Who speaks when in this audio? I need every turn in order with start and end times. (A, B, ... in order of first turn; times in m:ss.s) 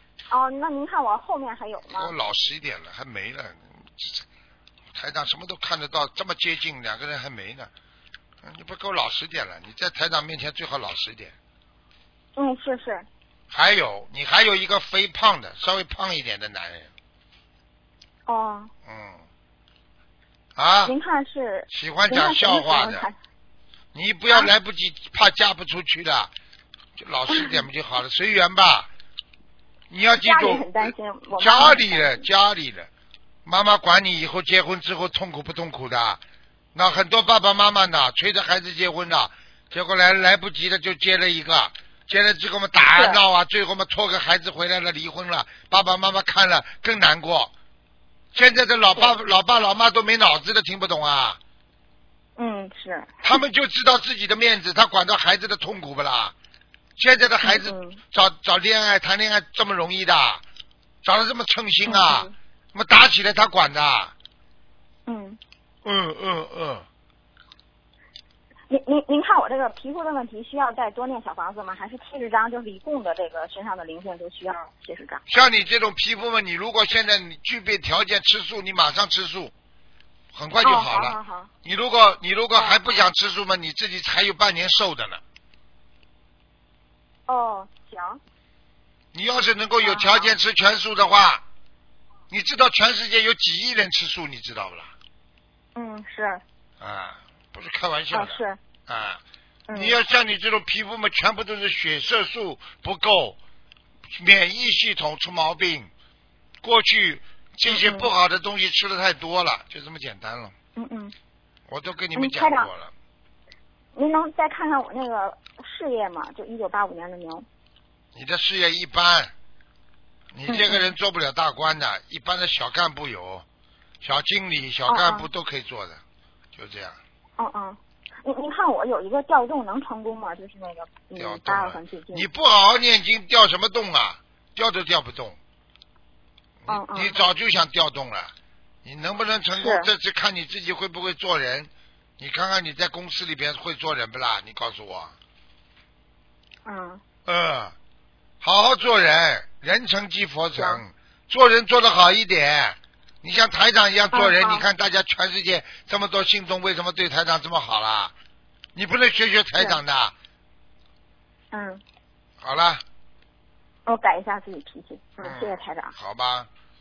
0:00.3-0:02.1 A
0:01.9-0:04.2 B
0:04.9-0:07.7 B
0:08.4-0:11.3 B
0:12.4-0:13.1 A
0:13.5-0:16.9 B
0:18.3-0:18.7 A
0:18.8-0:19.2 B
0:20.6-0:20.9 B
0:20.8-0:23.2 A
0:21.7-0:23.1 B
0:23.9-0:26.3 B
0:27.0-0:28.9 B
0:27.3-0:27.6 A
0:29.9-0:32.9 B
0:30.2-0:32.2 A
0:33.4-0:36.2 B
0:36.8-0:47.5 B
0:43.0-0:43.2 A
0:48.3-0:51.4 B
0:52.4-0:53.3 A
0:53.2-0:56.3 B
0:57.0-1:00.4 B
0:57.4-0:58.0 A
1:01.0-1:04.1 B
1:01.9-1:02.3 A
1:05.1-1:05.4 A
1:05.8-1:06.9 B
1:08.7-1:15.2 A
1:15.3-1:19.5 B
1:20.3-1:25.2 B
1:20.6-1:21.5 A
1:27.3-1:28.2 A
1:29.1-1:31.4 B
1:29.8-1:30.3 A
1:32.3-1:34.9 B
1:35.8-1:36.4 A
1:36.8-1:39.2 B
1:38.1-1:38.6 A
1:39.7-1:40.0 A
1:39.7-1:43.4 B
1:44.1-1:45.9 B
1:46.6-1:50.5 B
1:47.7-1:48.1 A
1:50.8-1:51.1 A
1:51.7-1:52.9 B
1:52.2-1:52.7 A
1:54.0-1:57.5 A
1:58.2-1:59.3 B
2:00.3-2:03.4 B
2:00.5-2:00.9 A
2:04.0-2:06.0 B
2:04.9-2:05.3 A
2:06.6-2:07.0 B
2:07.4-2:12.3 A
2:11.2-2:15.4 B
2:16.6-2:18.3 B
2:16.7-2:17.1 A
2:18.8-2:25.2 B
2:19.6-2:19.9 A
2:26.6-2:27.0 A
2:27.3-2:27.8 B
2:28.4-2:38.1 B
2:30.6-2:30.8 A
2:34.1-2:34.6 A
2:38.8-2:40.1 B
2:41.5-2:41.8 A
2:42.4-2:42.8 B
2:43.9-2:46.0 A
2:45.2-2:46.5 B